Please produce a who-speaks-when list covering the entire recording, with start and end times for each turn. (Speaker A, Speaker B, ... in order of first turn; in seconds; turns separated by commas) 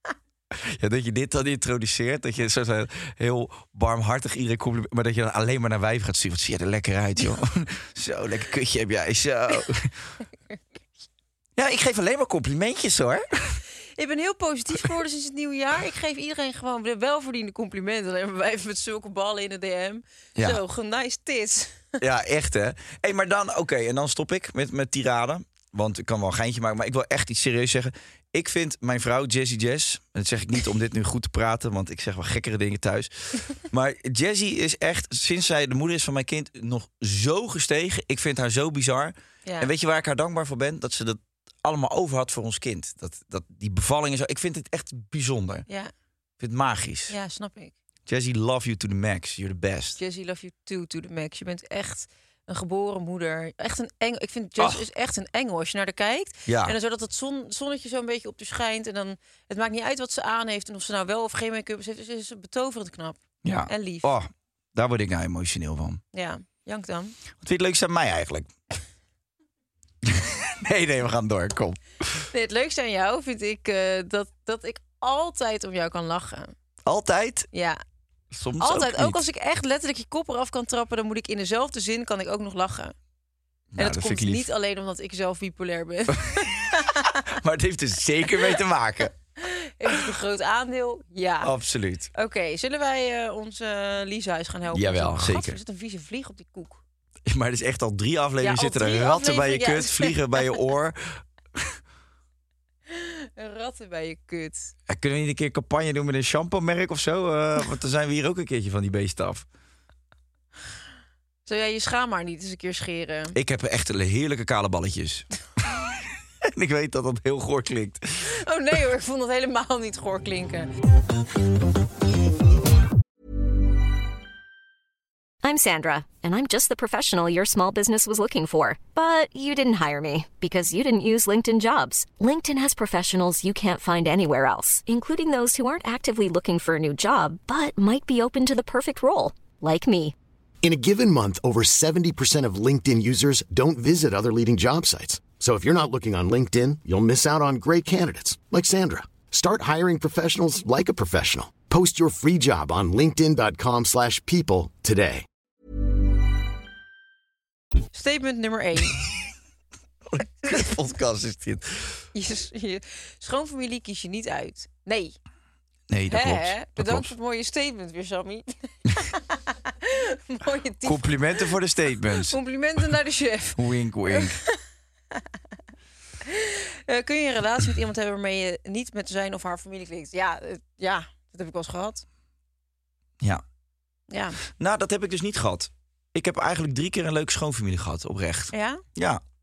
Speaker A: 0.5-10.0, Speaker A: 11.6-13.6, Speaker B: 14.0-22.0, Speaker A: 22.0-45.7, Speaker B: 39.5-39.7, Speaker A: 46.4-47.1, Speaker B: 47.1-47.7, Speaker A: 48.1-50.0, Speaker B: 50.0-64.1, Speaker A: 56.5-56.8, Speaker A: 63.4-66.0, Speaker B: 66.1-67.2, Speaker A: 67.4-68.5, Speaker A: 70.0-72.3, Speaker B: 72.3-76.5, Speaker A: 76.9-77.5, Speaker B: 77.5-77.8, Speaker A: 78.3-79.2, Speaker B: 78.6-82.9, Speaker A: 83.7-84.5, Speaker B: 83.8-87.2, Speaker A: 86.2-89.1, Speaker B: 89.4-91.5, Speaker A: 91.4-92.1, Speaker B: 92.1-96.8, Speaker A: 94.7-95.6, Speaker A: 97.3-101.8, Speaker B: 98.4-100.5, Speaker B: 102.9-104.7, Speaker A: 104.9-109.5, Speaker B: 111.5-113.4, Speaker A: 113.3-118.3, Speaker B: 118.2-120.7, Speaker C: 125.4-140.2, Speaker D: 140.6-155.3, Speaker B: 157.9-159.0, Speaker A: 160.1-162.0, Speaker B: 162.1-165.2, Speaker A: 165.9-167.1, Speaker B: 166.1-171.5, Speaker A: 170.8-172.4, Speaker B: 172.2-174.6, Speaker A: 173.6-174.4, Speaker B: 176.2-182.1, Speaker B: 184.1-184.4, Speaker A: 184.5-189.2, Speaker B: 188.5-188.8